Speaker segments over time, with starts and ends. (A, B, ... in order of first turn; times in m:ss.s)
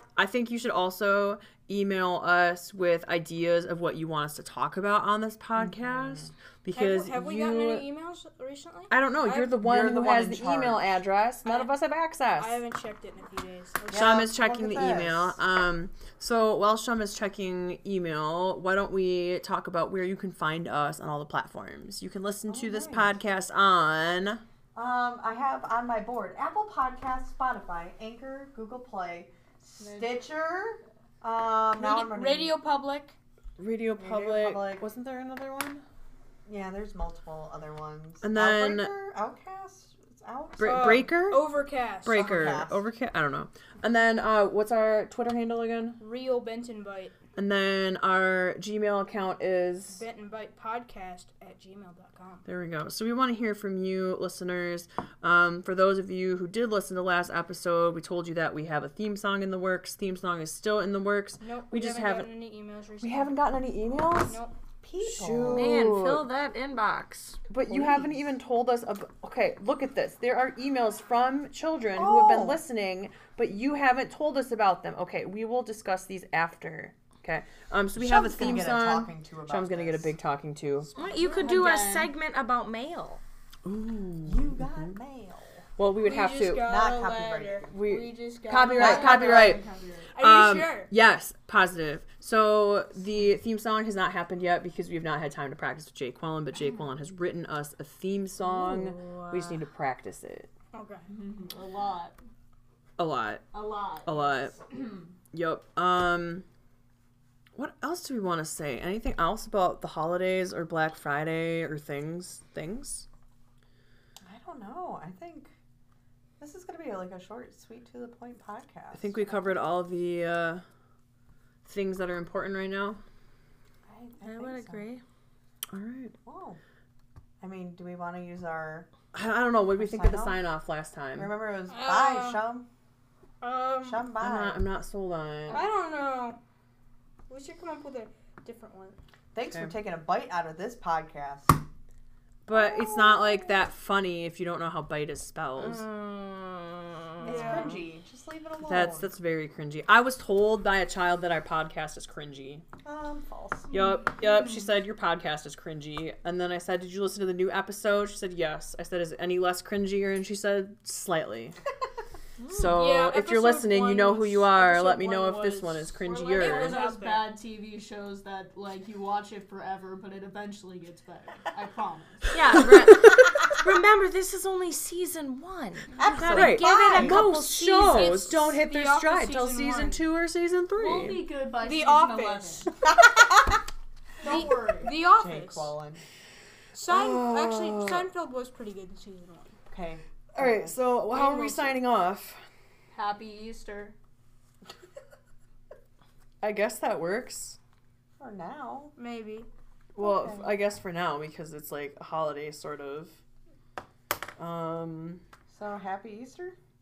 0:00.2-0:07.9 A
0:05.6-0:06.2 B
0:06.7-0:09.6 C
0:08.9-0:12.6 A
0:09.5-0:11.0 B
0:11.4-0:11.7 C
0:12.4-0:14.2 C
0:13.9-0:15.4 B
0:13.9-0:24.4 A
0:22.5-0:23.2 B
0:24.8-0:32.6 B
0:29.8-0:30.2 D
0:31.8-0:33.2 C
0:33.6-0:35.8 A
0:34.0-0:34.9 B
0:36.5-0:41.1 B
0:38.2-0:38.9 A
0:40.6-0:41.5 A
0:40.6-0:42.2 C
0:42.0-0:46.0 A
0:42.1-0:42.8 B
0:46.0-0:47.2 C
0:47.4-0:50.0 A
0:49.9-0:52.4 C
0:52.5-1:02.3 A
1:01.4-1:04.6 C
1:03.0-1:04.4 A
1:04.8-1:05.9 B
1:05.0-1:06.3 A
1:05.5-1:07.4 E
1:07.5-1:20.9 A
1:07.7-1:08.2 B
1:12.0-1:12.6 B
1:18.0-1:20.1 B
1:21.0-1:23.2 E
1:21.0-1:21.6 B
1:21.3-1:22.1 D
1:23.6-1:24.9 A
1:24.2-1:25.7 B
1:25.8-1:26.7 A
1:26.0-1:30.9 C
1:26.6-1:27.9 B
1:27.7-1:29.6 A
1:28.6-1:30.1 D
1:30.2-1:40.5 A
1:38.6-1:39.6 E
1:40.7-1:41.1 C
1:41.1-1:42.2 D
1:43.0-1:43.5 A
1:43.5-1:45.1 D
1:44.0-1:44.6 A
1:45.3-1:46.4 A
1:47.6-1:53.1 A
1:54.2-1:55.5 B
1:56.4-1:59.5 B
1:58.9-2:00.6 A
2:01.6-2:03.0 A
2:03.9-2:04.9 B
2:04.2-2:05.0 E
2:05.7-2:06.2 A
2:06.2-2:06.6 B
2:07.4-2:08.9 B
2:09.1-2:11.3 A
2:09.8-2:10.4 B
2:11.2-2:12.7 B
2:11.7-2:12.4 C
2:13.4-2:14.1 C
2:13.8-2:14.7 B
2:14.2-2:15.6 A
2:15.5-2:16.4 C
2:17.3-2:19.0 C
2:19.3-2:21.6 B
2:19.4-2:19.7 A
2:22.5-2:25.9 A
2:25.6-2:27.5 E
2:27.2-2:29.2 B
2:27.2-2:27.8 C
2:28.6-2:32.6 A
2:32.8-2:33.7 B
2:33.7-2:41.6 A
2:42.5-2:46.8 A
2:42.7-2:47.4 C
2:46.3-2:52.6 D
2:52.3-2:58.3 E
2:56.0-2:57.2 B
2:56.2-3:01.2 A
2:57.8-3:00.0 C
3:00.8-3:02.7 D
3:01.6-3:02.7 C
3:02.8-3:03.6 B
3:04.2-3:04.9 D
3:04.2-3:05.7 C
3:04.3-3:06.0 B
3:06.7-3:09.6 C
3:06.9-3:08.1 A
3:09.7-3:10.8 B
3:10.4-3:12.4 A
3:11.1-3:11.8 C
3:12.9-3:14.0 D
3:16.4-3:17.6 A
3:18.2-3:19.0 B
3:19.0-3:19.5 C
3:20.0-3:23.2 A
3:24.4-3:25.2 A
3:25.5-3:26.6 B